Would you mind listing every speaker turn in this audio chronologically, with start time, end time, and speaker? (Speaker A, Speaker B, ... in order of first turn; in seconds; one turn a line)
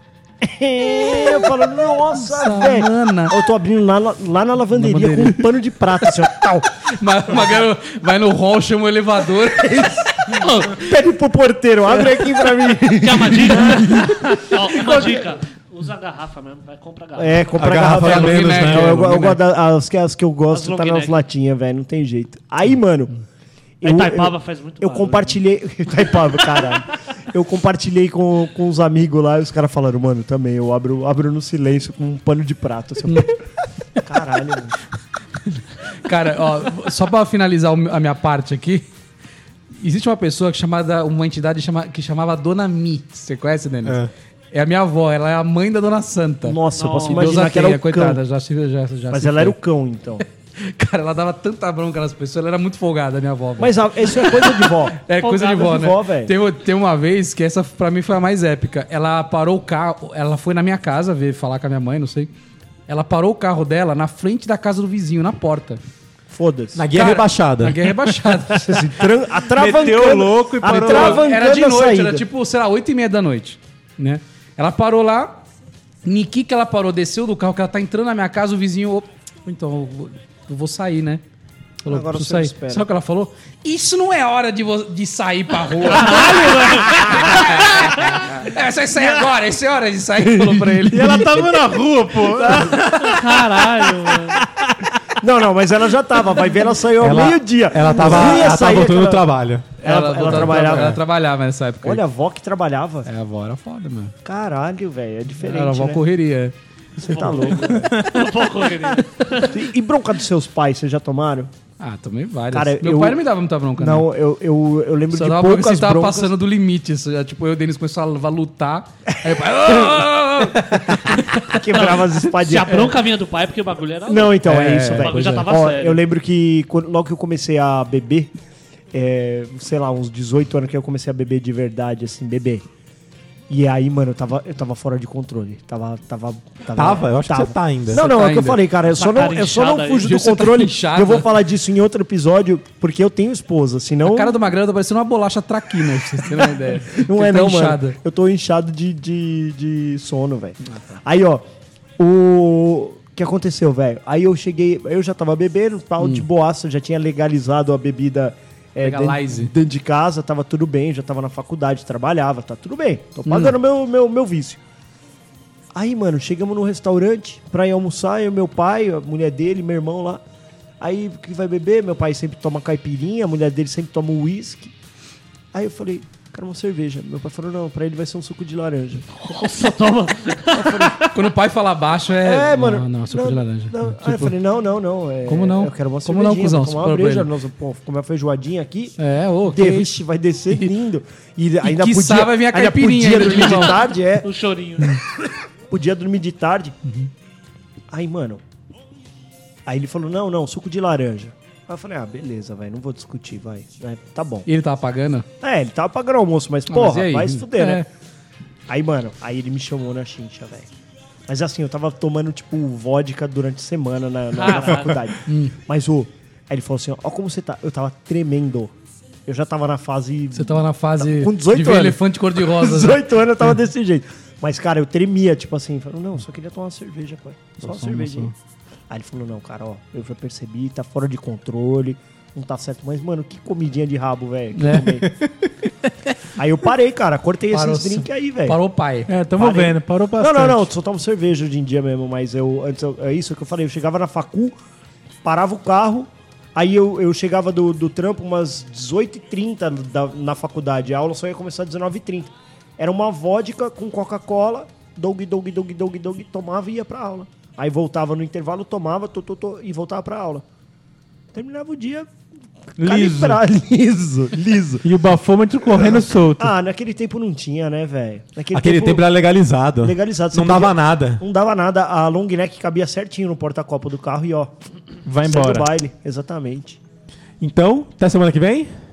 Speaker A: 0.4-6.7
Speaker B: 2.1-3.4
Speaker B: 4.7-5.5
Speaker B: 6.9-10.9
Speaker A: 9.6-15.3
Speaker C: 13.0-17.5
Speaker A: 17.2-23.2
Speaker D: 17.6-19.2
Speaker B: 17.8-19.4
Speaker C: 20.5-21.2
Speaker A: 23.8-33.3
Speaker C: 23.8-25.4
Speaker B: 33.0-33.3
Speaker A: 34.0-34.8
Speaker B: 35.5-38.9
Speaker B: 39.8-44.0
Speaker D: 43.8-44.1
Speaker B: 44.5-49.6
Speaker A: 46.5-48.2
Speaker C: 46.8-47.5
Speaker A: 49.1-50.2
Speaker B: 50.6-62.3
Speaker A: 53.6-56.3
Speaker C: 55.2-55.8
Speaker B: 62.9-65.8
Speaker A: 66.3-66.9
Speaker D: 66.8-67.8
Speaker B: 66.9-68.8
Speaker A: 68.5-72.2
Speaker E: 69.5-71.3
Speaker B: 70.8-75.4
Speaker B: 76.0-81.2
Speaker B: 81.8-91.5
Speaker A: 81.9-82.9
Speaker C: 85.9-87.3
Speaker A: 86.2-87.7
Speaker A: 90.2-91.5
Speaker E: 90.9-93.1
Speaker A: 92.4-93.2
Speaker C: 92.7-94.4
Speaker A: 95.2-99.2
Speaker D: 97.0-101.0
Speaker A: 99.8-101.0
Speaker B: 99.8-102.0
Speaker A: 101.8-103.1
Speaker B: 103.0-104.1
Speaker A: 104.2-106.0
Speaker B: 105.4-107.9
Speaker A: 107.0-108.0
Speaker C: 107.0-109.6
Speaker E: 107.9-108.3
Speaker A: 109.4-111.5
Speaker B: 111.8-114.1
Speaker A: 112.5-113.2
Speaker A: 113.8-116.3
Speaker B: 115.1-121.3
Speaker A: 119.6-120.0
Speaker A: 120.7-123.0
Speaker C: 121.5-126.0
Speaker A: 124.1-128.3
Speaker B: 124.5-125.5
Speaker A: 128.9-132.6
Speaker A: 133.5-144.4
Speaker D: 136.8-138.0
Speaker B: 137.9-138.6
Speaker C: 138.9-140.2
Speaker B: 140.0-141.3
Speaker B: 144.1-148.0
Speaker A: 146.3-151.4
Speaker B: 150.7-151.0
Speaker A: 152.0-164.6
Speaker B: 156.0-156.2
Speaker B: 158.8-159.5
Speaker B: 163.3-163.6
Speaker A: 165.8-170.2
Speaker A: 170.8-174.7
Speaker A: 175.5-179.1
Speaker C: 179.1-181.2
Speaker A: 180.5-181.1
Speaker B: 181.1-184.3
Speaker A: 182.2-189.0
Speaker B: 185.3-187.3
Speaker B: 189.0-190.0
Speaker A: 189.5-194.3
Speaker B: 191.6-193.9
Speaker C: 194.2-195.0
Speaker A: 194.9-196.8
Speaker A: 197.9-198.4
Speaker A: 199.7-204.5
Speaker B: 204.5-205.3
Speaker A: 205.4-207.9
Speaker B: 206.7-207.8
Speaker A: 208.7-210.7
Speaker A: 211.3-218.7
Speaker C: 214.3-215.0
Speaker B: 214.4-215.5
Speaker A: 219.3-228.3
Speaker B: 220.3-223.0
Speaker B: 227.6-228.3
Speaker A: 228.9-235.1
Speaker B: 234.6-234.9
Speaker A: 236.4-238.6
Speaker B: 237.5-239.1
Speaker E: 239.1-240.7
Speaker A: 239.4-244.6
Speaker A: 245.2-260.4
Speaker A: 261.3-262.1
Speaker A: 262.8-264.9
Speaker E: 262.8-263.4
Speaker E: 264.8-266.5
Speaker A: 265.8-269.0
Speaker D: 268.5-271.2
Speaker A: 269.8-274.5
Speaker E: 275.1-275.7
Speaker A: 275.2-276.8
Speaker D: 277.4-278.7